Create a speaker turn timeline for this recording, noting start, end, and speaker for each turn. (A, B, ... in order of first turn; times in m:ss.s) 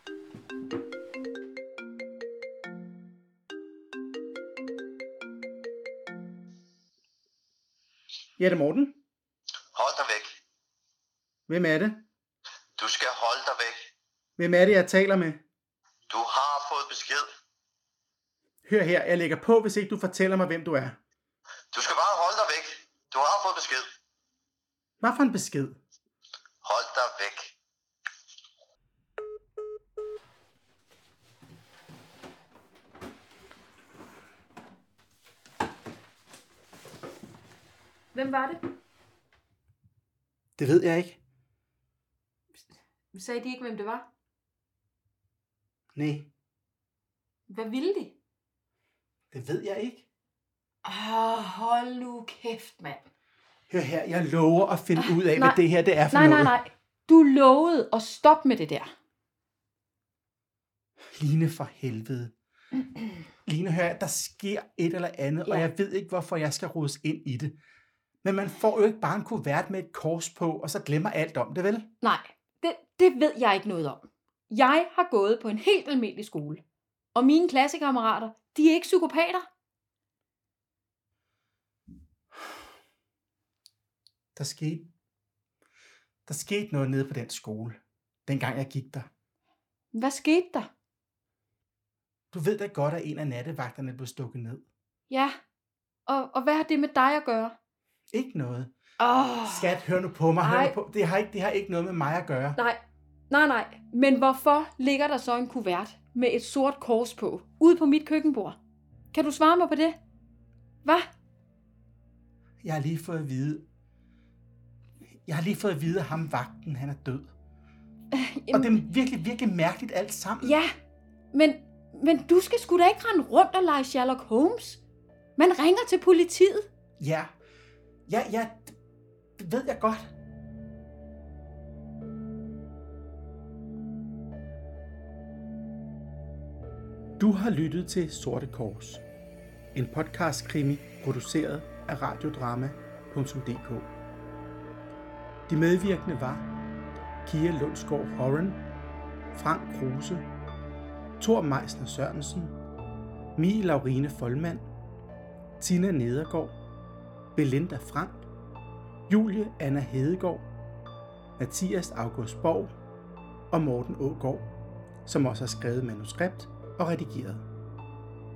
0:08.4-0:09.0 A
0:09.7-0:10.4 B
0:11.5-0:12.0 A
0:12.8-0:13.9 B
0:14.4-0:15.4 A
0:16.1-0:17.3 B
0:18.6-0:21.0 A
0:21.7-0:23.9 B
0:25.0-0:25.8 A
0:26.6-0:27.6 B
0:38.1-0:38.6 C
0:40.6-0:41.2 A
0:42.6-0:44.1 C
0:46.0-0:46.3 A
0:47.5-0:48.2 C
0:49.3-0:50.1 A
0:50.8-0:53.0 C
0:53.7-0:56.6 A
0:55.0-0:58.9 C
1:01.2-1:02.3 A
1:03.5-1:07.6 A
1:08.2-1:11.9 A
1:12.0-1:16.6 C
1:17.1-1:19.5 C
1:24.4-1:24.9 A
1:26.3-1:29.1 A
1:29.9-1:30.7 C
1:32.3-1:34.7 A
1:35.1-1:35.4 C
1:36.1-1:37.6 C
1:38.1-1:38.7 A
1:39.0-1:39.8 C
1:39.5-1:42.6 A
1:40.4-1:40.8 C
1:42.6-1:48.6 C
1:49.1-1:50.0 C
1:52.6-1:53.7 A
1:55.3-1:57.3 A
1:58.1-1:58.8 C
1:58.5-2:00.6 A
2:00.4-2:00.7 C
2:01.3-2:04.8 C
2:05.4-2:06.7 C
2:07.0-2:07.4 A
2:08.1-2:08.8 A
2:09.4-2:10.1 A
2:17.2-2:19.0 A
2:19.7-2:23.9 A
2:25.5-2:26.5 A
2:27.2-2:28.6 A
2:29.3-2:30.3 A
2:31.2-2:32.6 A
2:33.4-2:34.7 A
2:35.6-2:36.6 A
2:37.4-2:38.3 A
2:39.1-2:40.5 A
2:41.4-2:42.7 A
2:43.5-2:44.5 A
2:45.1-2:47.5 A